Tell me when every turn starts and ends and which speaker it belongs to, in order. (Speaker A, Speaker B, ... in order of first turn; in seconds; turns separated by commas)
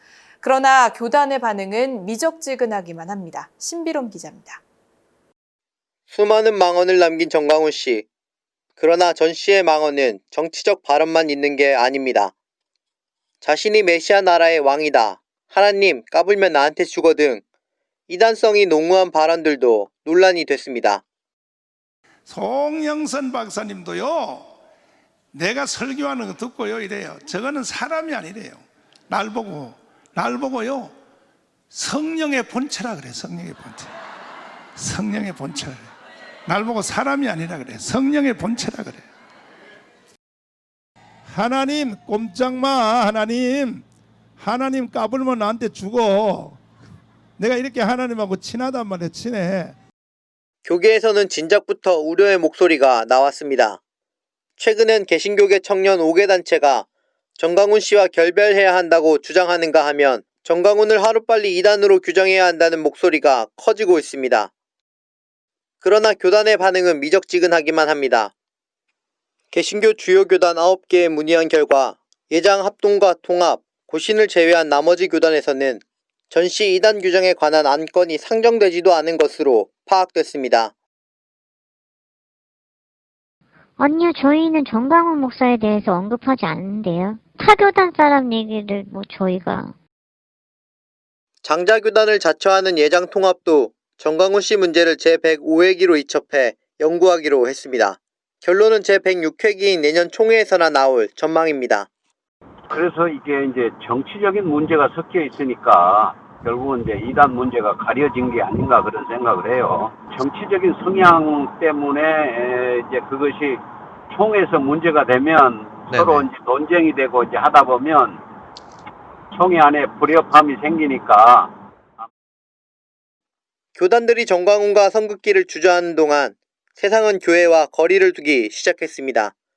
Speaker A: 0.4-4.6, Speaker B: 6.1-8.1, Speaker B: 8.8-12.3, Speaker B: 13.4-17.4, Speaker B: 18.1-21.0, Speaker C: 22.2-24.5, Speaker C: 25.3-30.9, Speaker C: 31.7-33.9, Speaker C: 34.8-35.9, Speaker C: 36.5-39.1, Speaker C: 41.3-43.8, Speaker C: 44.4-46.6, Speaker C: 47.4-49.8, Speaker B: 50.6-53.8, Speaker B: 54.6-56.9, Speaker B: 57.4-64.5, Speaker B: 65.8-68.3, Speaker B: 69.5-80.7, Speaker D: 83.8-89.7, Speaker B: 91.4-101.9, Speaker E: 102.7-118.2, Speaker E: 119.3-121.5, Speaker B: 123.8-129.3